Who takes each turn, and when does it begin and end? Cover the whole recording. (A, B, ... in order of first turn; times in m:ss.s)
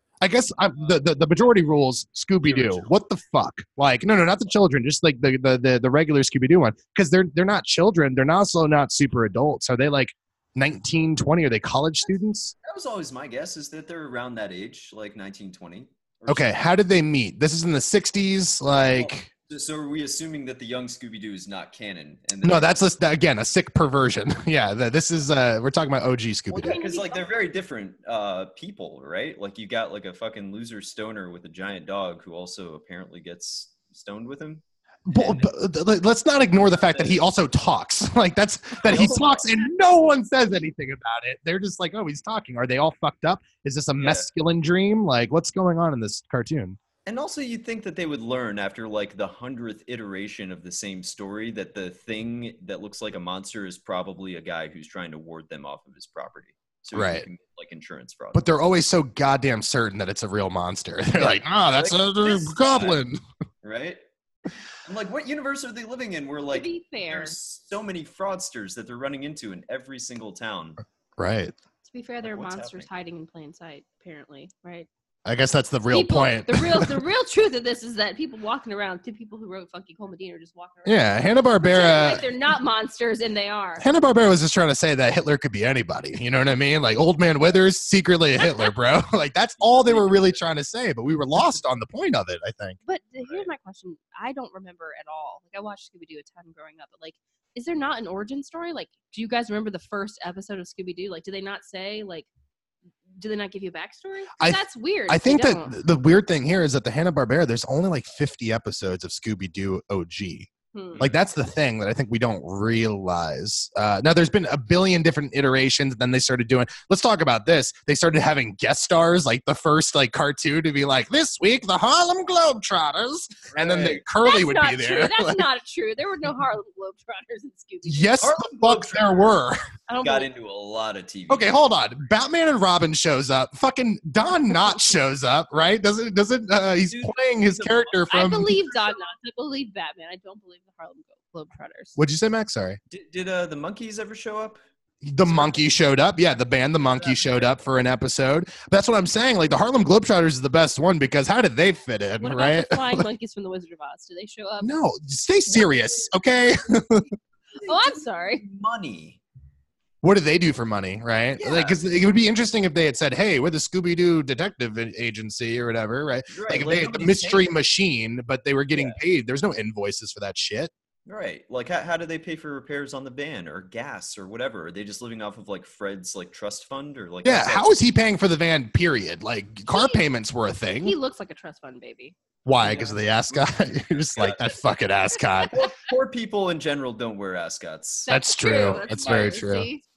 0:00.2-0:12.5 A
0:02.4-0:02.9 B
0:12.6-0:16.5 B
0:16.3-0:19.3 A
0:18.7-0:22.8 B
0:22.4-0:26.8 A
0:26.5-0:35.5 B
0:26.5-0:27.2 C
0:35.1-0:46.8 A
0:36.9-0:37.2 B
0:38.8-0:39.6 B
0:44.0-0:44.3 B
0:47.0-0:58.4 B
0:56.9-0:57.2 A
0:58.3-1:03.2 A
1:01.2-1:03.0 B
1:03.6-1:04.0 B
1:04.8-1:10.8 B
1:06.5-1:07.3 C
1:11.2-1:11.5 A
1:11.8-1:14.9 C
1:12.2-1:12.9 B
1:15.2-1:17.0 A
1:15.9-1:23.8 C
1:20.8-1:22.2 A
1:23.8-1:32.8 A
1:28.4-1:28.6 C
1:29.6-1:30.4 B
1:32.8-1:42.3 C
1:33.2-1:33.5 B
1:43.2-1:45.8 C
1:44.4-2:05.4 A
1:50.7-1:51.0 C
1:51.0-1:51.3 B
2:03.5-2:04.0 B
2:04.2-2:08.2 C
2:07.8-2:09.6 A
2:08.2-2:09.4 B
2:09.9-2:10.3 C
2:10.0-2:11.6 B
2:11.3-2:18.6 A
2:16.8-2:19.1 B
2:18.1-2:22.0 C
2:22.0-2:22.8 A
2:22.9-2:24.6 B
2:25.0-2:33.1 A
2:25.2-2:25.6 B
2:26.9-2:27.5 B
2:32.2-2:34.7 C
2:34.6-2:37.1 A
2:35.5-2:36.1 B
2:37.5-2:39.2 B
2:37.6-2:38.4 C
2:40.0-2:50.7 A
2:41.4-2:41.8 B
2:46.3-2:47.5 B
2:48.7-2:49.0 B
2:51.0-2:57.7 B
2:57.2-3:01.0 A
2:59.7-3:00.0 C
3:00.8-3:02.2 C
3:02.4-3:05.5 A
3:02.6-3:04.6 B
3:05.5-3:09.4 B
3:08.1-3:09.8 C
3:08.1-3:09.7 A